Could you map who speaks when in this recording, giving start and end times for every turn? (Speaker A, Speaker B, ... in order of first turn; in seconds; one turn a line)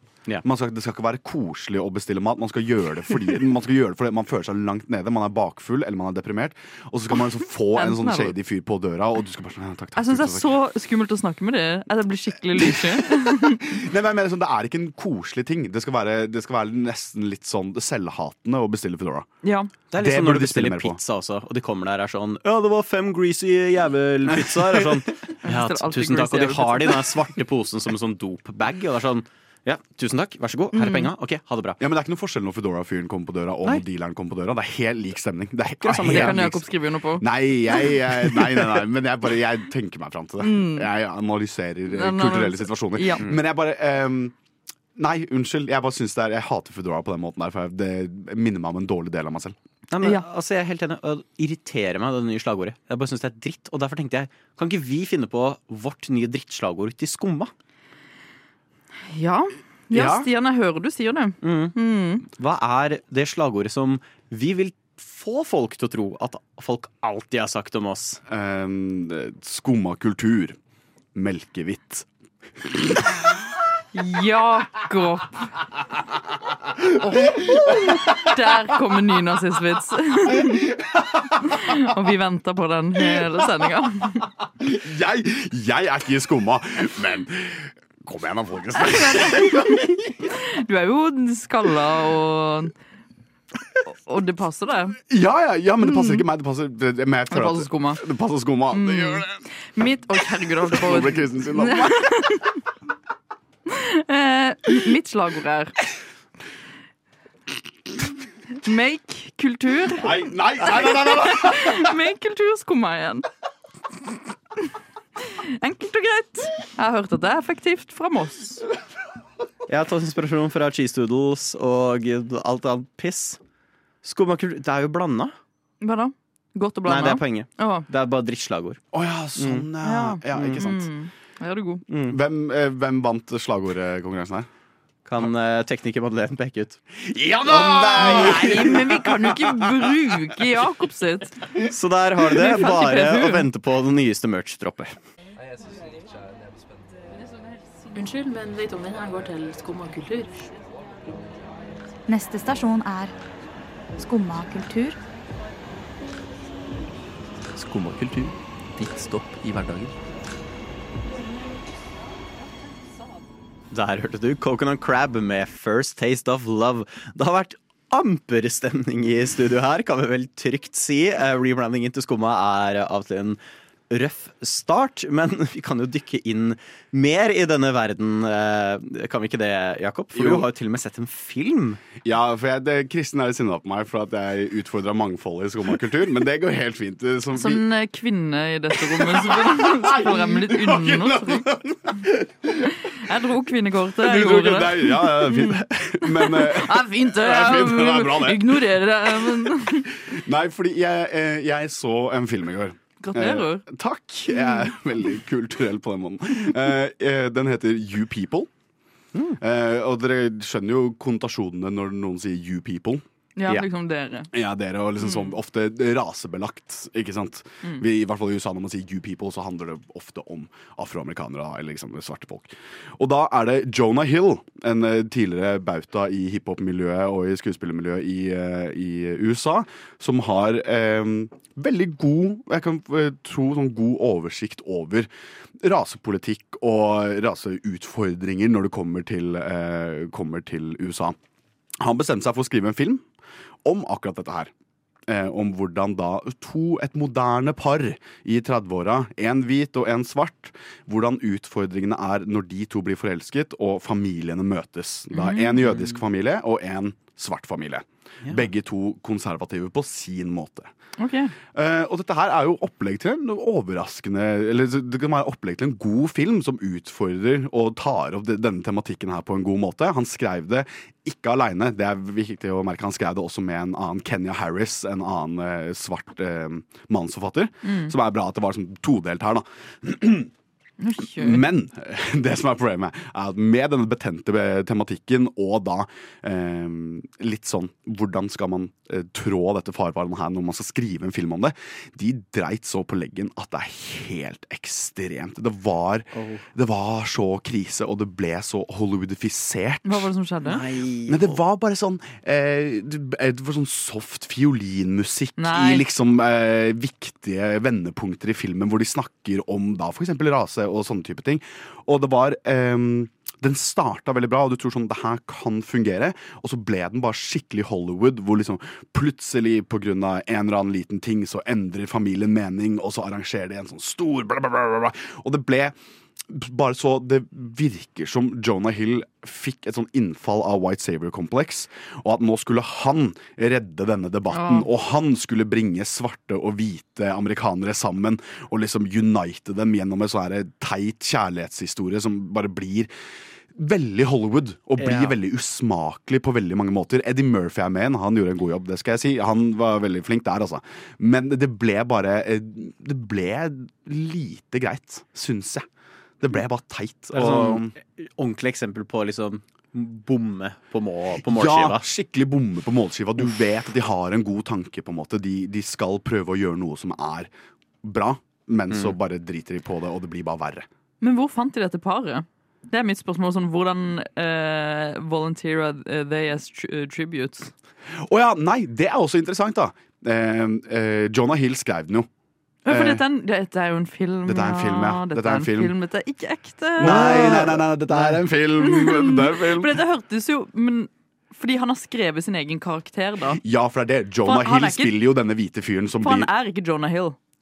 Speaker A: 0.4-10.5
Speaker B: 7.7-8.3
Speaker B: 10.0-13.6
Speaker A: 12.6-13.0
Speaker A: 13.6-19.3
Speaker B: 19.4-19.7
Speaker C: 19.9-31.8
Speaker A: 19.9-21.0
Speaker A: 24.4-24.9
Speaker B: 25.4-27.1
Speaker B: 30.7-31.1
Speaker A: 31.8-36.6
Speaker C: 35.8-36.5
Speaker B: 36.1-37.3
Speaker A: 37.2-44.3
Speaker B: 40.4-40.9
Speaker B: 41.9-43.2
Speaker A: 45.0-49.5
Speaker C: 49.9-57.5
Speaker B: 59.1-62.2
Speaker C: 61.4-68.2
Speaker A: 68.3-70.6
Speaker A: 71.2-72.1
Speaker A: 72.6-73.1
Speaker B: 73.9-75.5
Speaker B: 77.0-80.8
Speaker B: 81.4-84.3
Speaker A: 84.6-90.0
Speaker B: 88.8-92.7
Speaker B: 93.9-95.0
Speaker A: 95.1-99.4
Speaker B: 95.8-96.2
Speaker B: 97.3-98.0
Speaker B: 98.7-102.6
Speaker A: 100.6-102.1
Speaker B: 103.7-105.8
Speaker B: 108.6-113.2
Speaker A: 110.0-111.9
Speaker B: 115.3-118.7
Speaker C: 119.7-123.4
Speaker C: 124.0-125.3
Speaker B: 125.8-127.9
Speaker C: 126.9-128.8
Speaker A: 128.9-130.9
Speaker C: 129.4-129.7
Speaker B: 129.8-131.8
Speaker C: 131.9-132.2
Speaker A: 132.1-134.5
Speaker C: 135.1-136.8
Speaker A: 137.0-139.7
Speaker C: 137.5-138.8
Speaker B: 137.9-141.5
Speaker C: 141.6-144.9
Speaker B: 142.3-143.5
Speaker D: 148.0-150.3
Speaker E: 152.1-153.1
Speaker E: 154.0-155.0
Speaker F: 157.6-159.9
Speaker C: 163.7-173.4
Speaker C: 173.9-181.8
Speaker A: 180.1-180.5
Speaker A: 182.0-187.6
Speaker B: 187.3-191.5
Speaker A: 188.8-192.7
Speaker B: 192.9-199.9
Speaker A: 194.0-199.5
Speaker A: 200.1-208.5
Speaker B: 203.0-203.6
Speaker A: 209.4-213.0
Speaker B: 213.4-214.3
Speaker A: 214.3-235.1
Speaker A: 235.6-241.2
Speaker A: 241.8-243.0
Speaker A: 243.7-244.5
Speaker A: 245.1-260.7
Speaker B: 255.1-255.6
Speaker B: 261.0-261.3
Speaker A: 261.5-280.3
Speaker B: 277.6-277.9
Speaker B: 280.8-281.5
Speaker A: 281.0-300.1
Speaker C: 296.1-296.4
Speaker B: 299.8-300.6
Speaker C: 300.4-301.4
Speaker A: 301.1-325.8
Speaker B: 305.4-305.9
Speaker A: 326.3-342.9
Speaker B: 334.3-334.7
Speaker A: 343.6-355.7
Speaker C: 344.8-345.1
Speaker A: 356.2-357.7
Speaker C: 357.1-361.8
Speaker A: 361.2-367.3
Speaker A: 367.8-370.7
Speaker B: 371.0-377.5
Speaker A: 378.0-382.1
Speaker B: 382.6-387.5
Speaker A: 382.7-383.0
Speaker A: 384.3-385.7
Speaker A: 386.8-389.8
Speaker C: 386.8-388.1
Speaker B: 388.6-393.4
Speaker A: 393.3-396.3
Speaker B: 394.2-395.0
Speaker B: 396.0-397.2